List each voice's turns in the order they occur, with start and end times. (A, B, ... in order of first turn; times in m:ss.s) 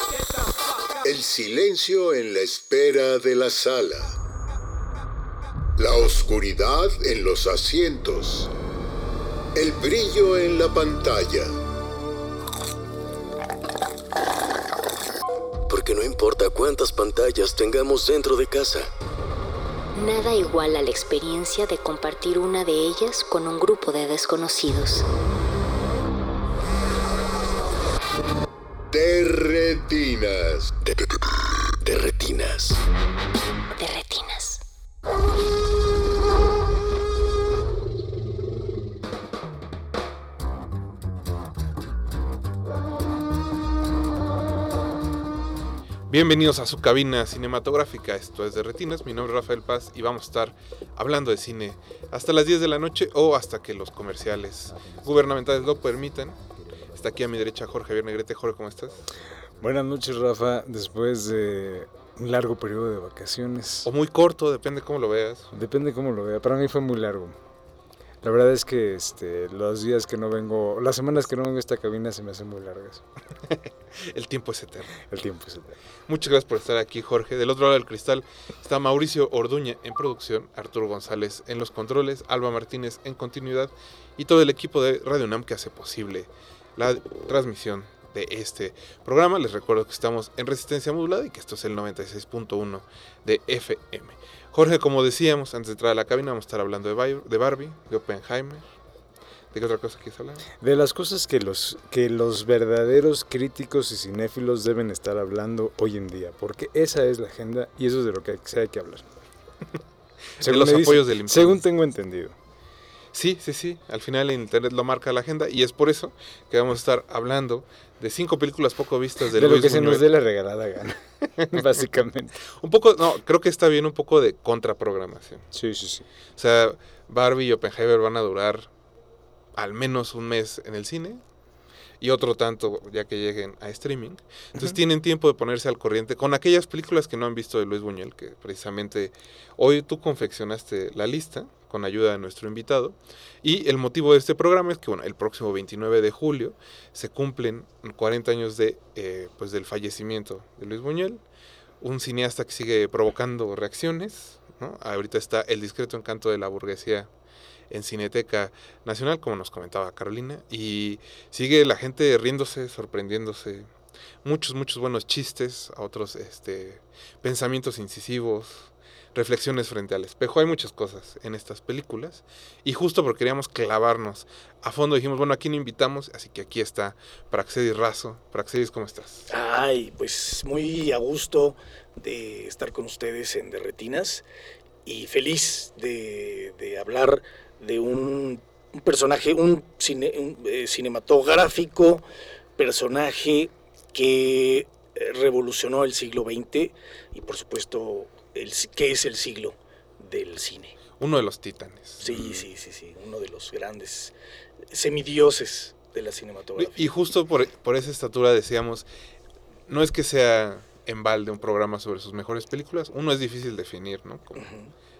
0:01.0-0:04.1 A
0:05.8-0:08.5 A
0:09.5-0:11.6 A
0:15.7-0:18.9 B
0:19.9-0:25.1 C
0:28.9-0:30.7 A
0:30.8-0:31.2 B
0:31.7-0:32.8 B
0:33.8-0:34.6 C
0:46.1-0:59.1 D
0:59.6-1:03.9 E
1:03.8-1:05.6 D
1:05.5-1:07.4 E
1:08.2-1:13.0 E
1:13.5-1:15.0 D
1:15.0-1:15.8 E
1:16.1-1:38.7 D
1:39.5-1:40.5 D
1:40.6-1:49.1 E
1:50.4-1:51.6 D
1:50.4-1:52.4 E
1:53.1-2:00.0 D
1:59.3-2:02.4 E
2:02.6-2:05.4 D
2:05.5-2:06.0 E
2:06.4-2:08.7 D
2:09.5-2:11.2 D
2:12.0-2:31.2 D
2:31.8-2:37.1 D
2:37.7-2:43.7 D
2:44.2-2:59.3 D
2:59.3-3:04.2 F
3:04.8-3:12.0 F
3:12.6-3:20.8 F
3:21.0-3:22.1 D
3:22.0-3:24.1 F
3:22.1-3:22.4 E
3:24.7-3:26.7 F
3:26.6-3:28.8 D
3:29.7-3:34.5 D
3:34.4-3:34.7 F